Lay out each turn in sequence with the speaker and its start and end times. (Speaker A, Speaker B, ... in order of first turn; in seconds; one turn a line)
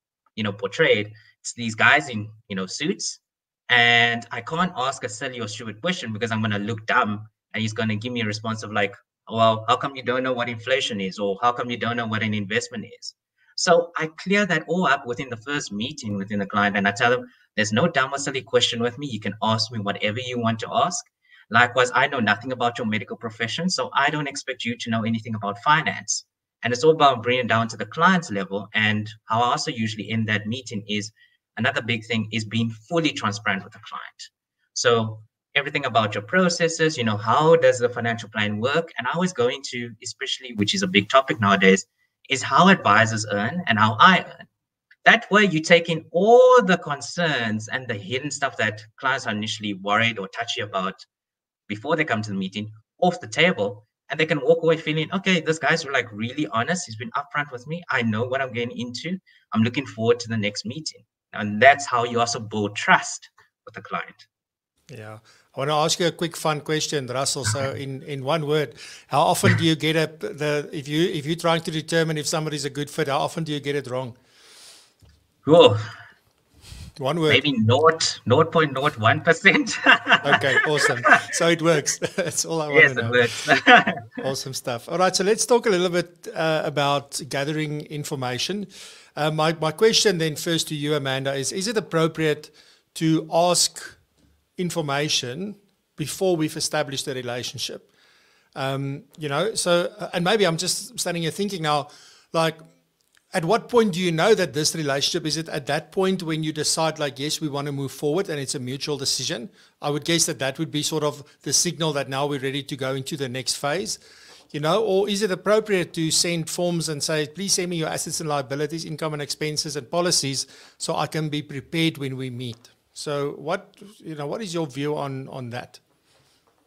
Speaker A: 0.3-44.5
Speaker A: 45.0-51.0
Speaker A: 51.7-64.2
Speaker B: 64.9-74.1
Speaker A: 75.4-75.8
Speaker B: 77.0-77.4
Speaker A: 77.3-80.8
Speaker B: 80.2-83.3
Speaker A: 82.7-84.2
Speaker B: 84.2-94.0
Speaker B: 94.6-97.9
Speaker B: 98.5-102.6
Speaker B: 103.3-114.0
Speaker B: 114.5-125.8